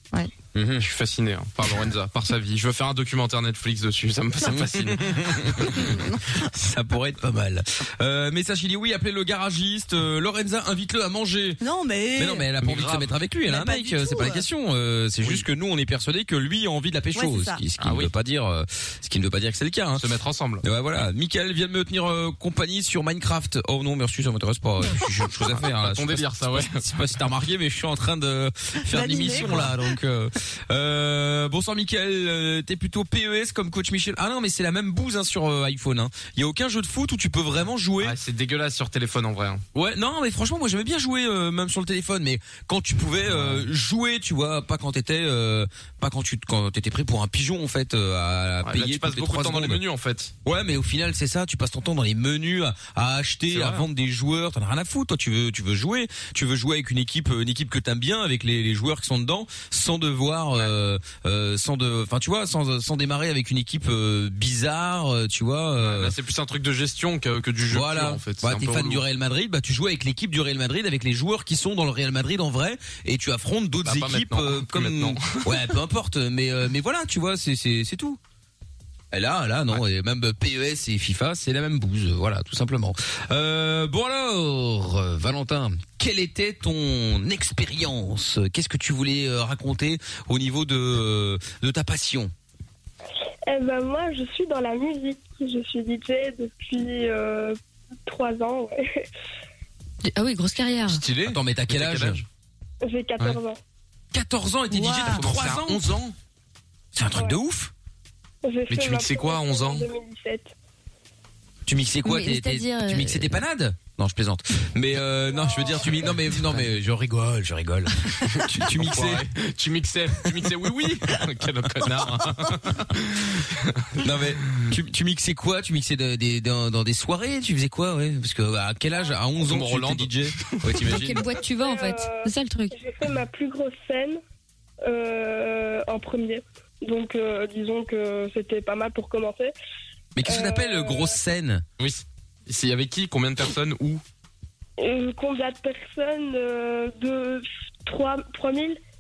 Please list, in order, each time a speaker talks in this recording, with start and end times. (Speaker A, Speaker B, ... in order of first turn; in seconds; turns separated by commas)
Speaker A: 0.5-0.8, Speaker B: 0.8-5.8, Speaker A: 4.4-11.6, Speaker C: 5.8-6.4, Speaker C: 11.6-12.5, Speaker A: 12.2-20.0, Speaker B: 12.6-13.1, Speaker C: 13.5-14.4, Speaker C: 17.1-17.6, Speaker B: 17.8-18.1, Speaker B: 20.0-20.6, Speaker A: 20.6-38.2, Speaker B: 25.5-26.8, Speaker C: 28.9-29.9, Speaker B: 29.3-29.6, Speaker B: 38.0-39.6, Speaker A: 39.7-49.8, Speaker B: 43.3-43.7, Speaker B: 48.6-50.3, Speaker A: 50.4-66.1, Speaker B: 53.5-53.9, Speaker B: 65.8-69.0, Speaker A: 67.7-78.2, Speaker B: 73.8-75.7, Speaker A: 79.1-92.3, Speaker D: 93.5-99.0, Speaker E: 100.0-101.0, Speaker B: 100.9-102.2, Speaker A: 101.2-102.2, Speaker D: 102.8-103.6, Speaker A: 104.1-106.0, Speaker C: 104.7-105.2, Speaker B: 105.1-106.1, Speaker A: 106.9-107.7, Speaker D: 107.1-107.4, Speaker D: 108.4-110.5, Speaker B: 108.7-109.9, Speaker A: 111.7-119.3, Speaker E: 112.0-113.4, Speaker D: 115.3-116.0, Speaker B: 116.3-116.6, Speaker B: 118.3-124.7, Speaker A: 121.9-122.3, Speaker A: 124.0-131.2, Speaker B: 129.5-131.1, Speaker E: 130.8-132.7, Speaker D: 131.5-134.2, Speaker D: 134.8-139.5, Speaker A: 140.1-141.6, Speaker D: 140.2-141.2, Speaker B: 141.8-144.0, Speaker D: 144.8-148.8